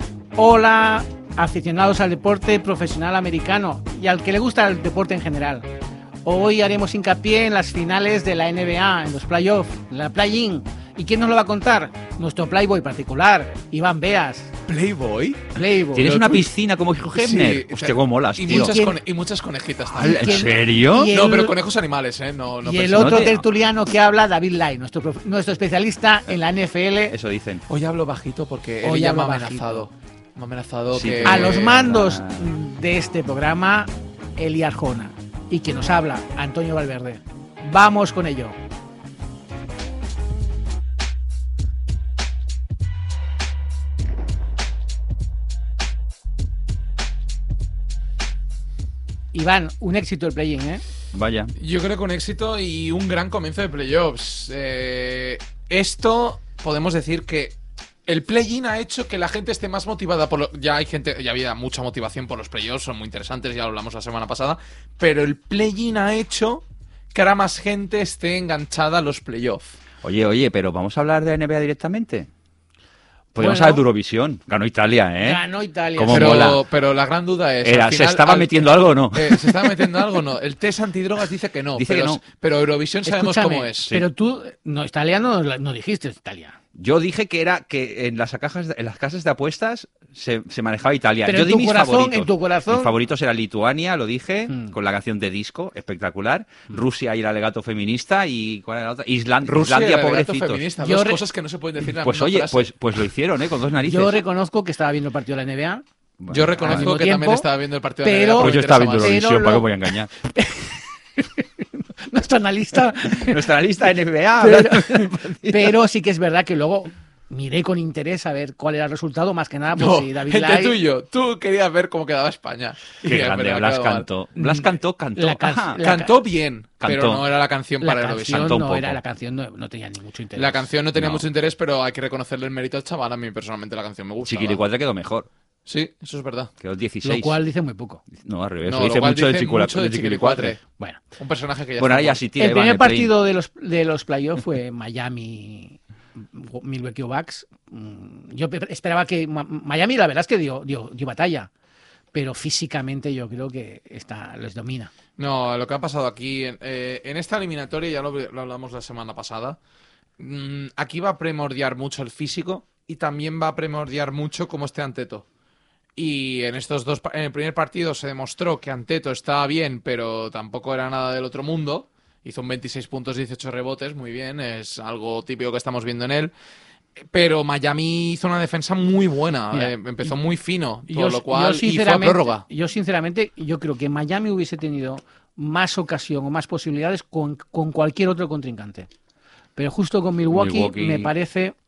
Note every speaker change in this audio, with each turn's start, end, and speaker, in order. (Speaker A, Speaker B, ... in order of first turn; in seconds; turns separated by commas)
Speaker A: 0.3-5.7, Speaker A: 6.2-14.5, Speaker B: 14.7-15.4, Speaker A: 15.5-16.2, Speaker C: 15.9-18.8, Speaker B: 16.0-16.4, Speaker B: 17.1-20.6, Speaker A: 18.5-19.0, Speaker A: 19.9-21.6, Speaker C: 19.9-21.1, Speaker B: 21.1-23.4, Speaker A: 22.6-27.1, Speaker C: 22.9-23.4, Speaker C: 27.1-27.6, Speaker B: 27.7-31.8, Speaker A: 28.8-29.9, Speaker C: 30.9-32.5, Speaker A: 31.2-38.6, Speaker A: 49.3-50.8, Speaker C: 51.1-51.5, Speaker B: 51.6-57.5, Speaker B: 58.1-69.8, Speaker C: 70.0-72.3, Speaker C: 73.3-75.4, Speaker A: 73.4-73.8, Speaker A: 75.2-76.6, Speaker C: 76.0-76.6, Speaker B: 76.1-84.0, Speaker C: 77.6-80.0, Speaker C: 81.8-82.2, Speaker A: 83.0-86.6, Speaker C: 86.7-100.6, Speaker A: 91.2-92.9, Speaker B: 99.4-102.7, Speaker A: 100.8-101.2, Speaker C: 101.8-104.2, Speaker A: 103.8-105.8, Speaker C: 106.2-106.9, Speaker B: 106.3-109.2, Speaker A: 106.6-107.5, Speaker A: 108.0-109.7, Speaker C: 108.4-110.1, Speaker A: 110.2-113.5, Speaker C: 113.0-115.7, Speaker A: 114.4-120.8, Speaker B: 119.7-124.1, Speaker C: 123.0-125.8, Speaker A: 124.3-126.1, Speaker B: 125.8-128.6, Speaker C: 126.8-127.2, Speaker A: 127.8-130.7, Speaker C: 128.3-129.0, Speaker B: 130.3-134.6, Speaker C: 130.9-131.2, Speaker C: 134.2-135.3, Speaker B: 135.7-136.5, Speaker C: 136.6-137.4, Speaker A: 137.0-138.0, Speaker C: 138.1-140.6, Speaker B: 138.7-140.6, Speaker B: 141.2-142.2, Speaker C: 141.8-143.1, Speaker A: 142.3-151.5, Speaker A: 152.1-154.9, Speaker B: 155.2-159.6, Speaker B: 160.2-165.2, Speaker B: 166.0-176.3, Speaker B: 177.1-182.4, Speaker A: 179.5-180.1, Speaker A: 180.9-188.9, Speaker A: 189.6-191.6, Speaker C: 190.3-191.1